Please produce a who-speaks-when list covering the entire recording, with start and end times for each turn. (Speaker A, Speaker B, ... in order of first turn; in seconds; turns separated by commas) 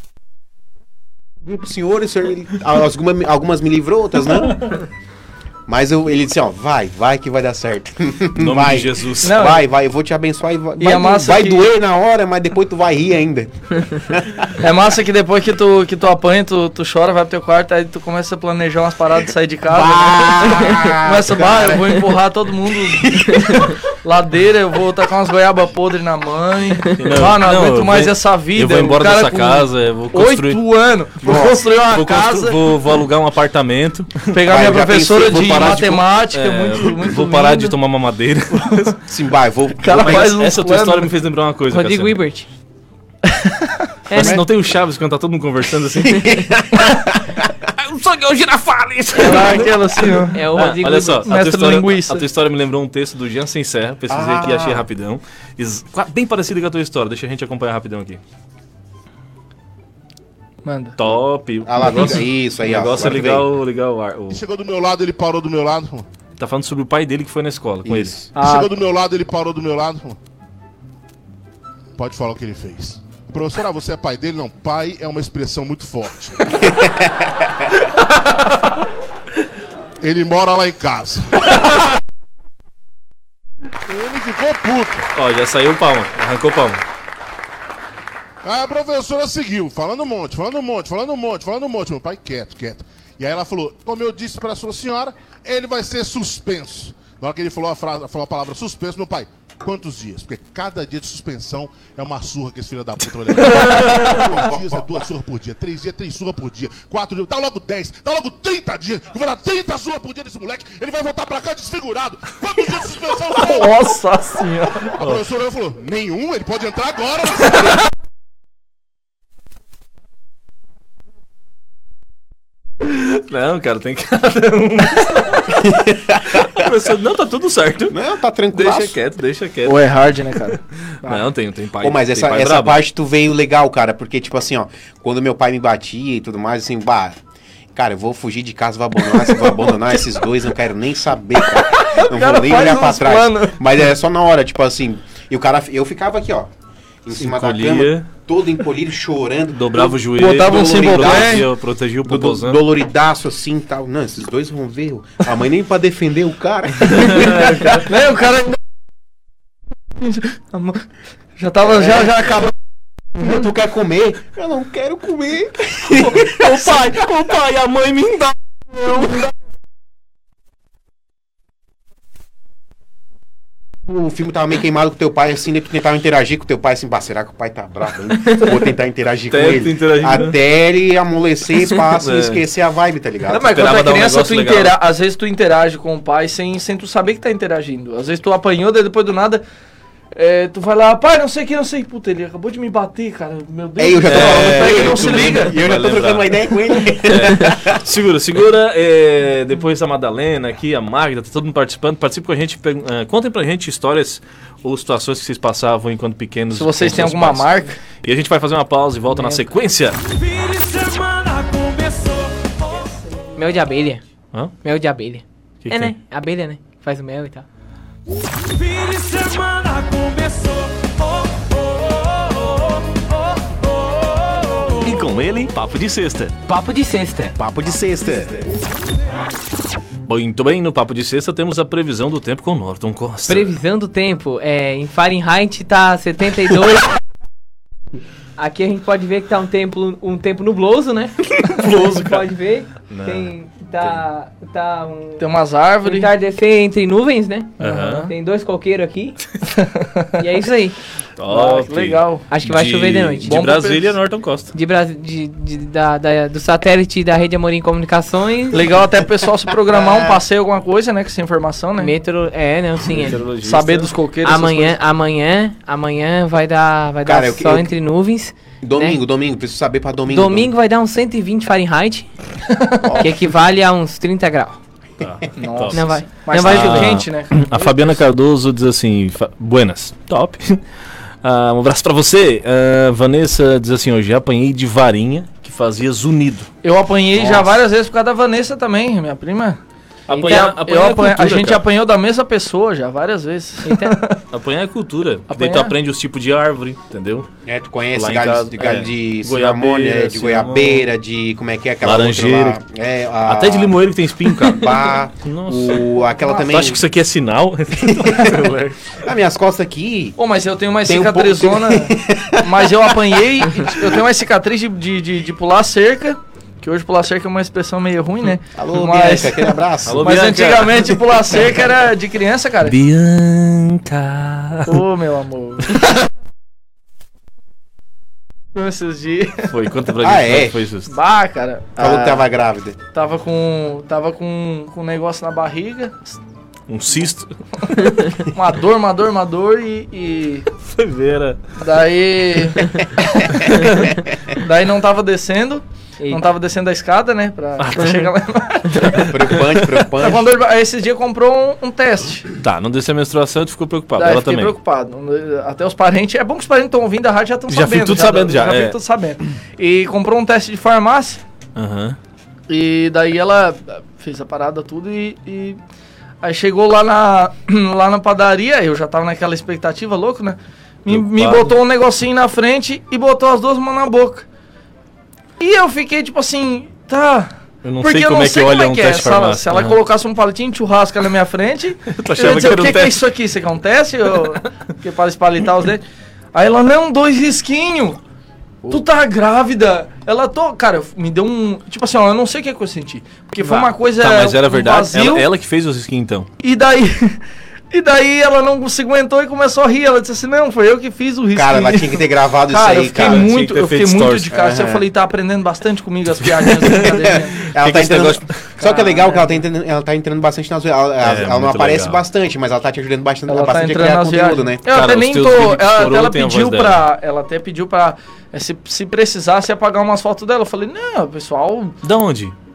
Speaker A: 1.4-4.8, Speaker A: 5.7-14.6, Speaker B: 8.4-9.6, Speaker C: 9.2-9.6, Speaker C: 10.8-11.7, Speaker C: 14.6-32.7, Speaker A: 19.7-22.2, Speaker A: 22.7-23.8, Speaker B: 26.9-30.6, Speaker A: 31.2-31.6, Speaker B: 31.3-39.0, Speaker C: 34.3-37.8, Speaker A: 34.5-35.8, Speaker C: 38.5-38.9, Speaker A: 39.1-40.4, Speaker C: 39.8-41.1, Speaker B: 39.9-42.2, Speaker D: 41.7-42.5, Speaker C: 43.2-43.8, Speaker D: 44.1-44.4, Speaker B: 44.1-46.5, Speaker A: 44.1-44.5, Speaker A: 46.0-47.6, Speaker B: 47.7-49.8, Speaker C: 49.2-50.5, Speaker D: 50.3-51.3, Speaker B: 50.5-58.2, Speaker C: 51.3-52.2, Speaker A: 54.1-54.9, Speaker C: 60.6-61.0, Speaker B: 61.0-64.4, Speaker A: 61.6-63.5, Speaker E: 64.3-66.1, Speaker B: 66.4-68.2, Speaker A: 67.8-68.3, Speaker D: 68.4-68.7, Speaker E: 68.4-70.2, Speaker E: 72.0-76.7, Speaker A: 76.6-77.5, Speaker E: 80.0-81.7, Speaker E: 83.9-85.1, Speaker B: 85.2-86.8, Speaker E: 88.4-113.9, Speaker B: 103.4-104.3, Speaker C: 113.4-115.0, Speaker E: 114.8-117.9, Speaker B: 122.8-128.0, Speaker A: 125.6-126.7, Speaker A: 127.9-129.0, Speaker B: 128.5-132.8, Speaker C: 129.7-131.2, Speaker A: 131.8-137.2, Speaker A: 137.8-146.5, Speaker C: 139.2-139.8, Speaker C: 141.5-143.7, Speaker A: 147.0-151.5, Speaker B: 147.1-148.1, Speaker B: 149.5-152.6, Speaker C: 150.0-151.5, Speaker A: 152.1-157.8, Speaker B: 156.9-157.7, Speaker C: 157.5-158.6, Speaker C: 160.0-160.8, Speaker C: 161.4-162.5, Speaker A: 163.2-166.8, Speaker B: 166.0-169.3, Speaker A: 173.8-183.6, Speaker B: 179.3-180.4, Speaker B: 181.8-182.4, Speaker C: 183.3-189.4, Speaker B: 183.3-184.8, Speaker C: 190.1-195.6, Speaker A: 193.8-197.8, Speaker B: 194.1-196.5, Speaker B: 197.0-212.6, Speaker C: 206.6-207.8, Speaker D: 209.2-209.4, Speaker D: 213.3-214.0, Speaker D: 214.6-217.5, Speaker B: 215.6-215.9, Speaker B: 218.6-221.5, Speaker B: 224.7-226.4, Speaker D: 226.5-227.4, Speaker A: 227.4-228.5, Speaker B: 230.1-233.6, Speaker D: 233.3-236.9, Speaker D: 238.4-245.2, Speaker B: 241.4-242.2, Speaker B: 242.9-244.0, Speaker C: 245.2-246.1, Speaker D: 245.8-249.2, Speaker B: 247.6-248.1, Speaker C: 249.5-250.1, Speaker D: 250.2-250.8, Speaker B: 251.2-254.5, Speaker C: 251.3-252.2, Speaker D: 252.3-253.4, Speaker C: 253.3-253.9, Speaker D: 254.5-258.7, Speaker C: 258.5-261.9, Speaker A: 259.7-260.2, Speaker D: 261.8-263.2, Speaker B: 262.9-263.9, Speaker C: 263.4-264.8, Speaker D: 264.2-269.0, Speaker A: 267.1-267.7, Speaker A: 268.6-270.5, Speaker D: 270.1-272.1, Speaker C: 272.6-272.9, Speaker A: 272.8-273.3, Speaker D: 273.0-274.6, Speaker B: 275.0-280.6, Speaker C: 275.4-278.0, Speaker D: 275.7-276.9, Speaker B: 281.2-286.5, Speaker C: 286.6-289.6, Speaker A: 287.1-287.6, Speaker B: 290.1-291.6, Speaker D: 290.1-290.5, Speaker C: 290.3-294.2, Speaker D: 293.6-294.0, Speaker B: 294.3-297.3, Speaker C: 295.3-295.7, Speaker A: 297.4-303.8, Speaker B: 297.9-300.9, Speaker B: 301.8-302.6, Speaker B: 303.2-309.0, Speaker A: 304.4-306.8, Speaker A: 307.8-310.2, Speaker C: 310.2-322.8, Speaker A: 310.9-314.0, Speaker A: 318.6-320.1, Speaker B: 319.9-321.0, Speaker B: 322.6-324.8, Speaker C: 324.7-325.9, Speaker C: 328.5-329.5, Speaker B: 329.5-330.9, Speaker A: 330.0-330.6, Speaker C: 330.9-332.3, Speaker A: 331.8-332.8, Speaker C: 332.9-336.2, Speaker B: 336.7-337.3, Speaker C: 337.7-340.5, Speaker B: 340.6-341.4, Speaker C: 341.6-352.3, Speaker D: 346.0-346.3, Speaker B: 347.6-348.1, Speaker A: 348.9-350.3, Speaker B: 349.0-349.9, Speaker B: 352.4-354.5, Speaker C: 354.0-361.2, Speaker B: 357.5-358.8, Speaker B: 361.6-362.0, Speaker C: 362.5-365.6, Speaker C: 366.2-374.3, Speaker B: 370.9-371.6, Speaker C: 375.4-385.8, Speaker B: 377.6-379.8, Speaker B: 381.9-383.1, Speaker C: 386.3-388.0, Speaker C: 388.7-395.3, Speaker B: 393.4-396.3, Speaker C: 396.4-397.2, Speaker C: 397.7-407.4, Speaker A: 401.3-403.3, Speaker B: 402.9-404.3, Speaker A: 404.3-404.9, Speaker B: 406.2-408.5, Speaker A: 406.7-414.7, Speaker C: 408.6-409.4, Speaker B: 411.0-412.0, Speaker C: 413.3-421.8, Speaker B: 414.7-416.8, Speaker B: 421.8-422.4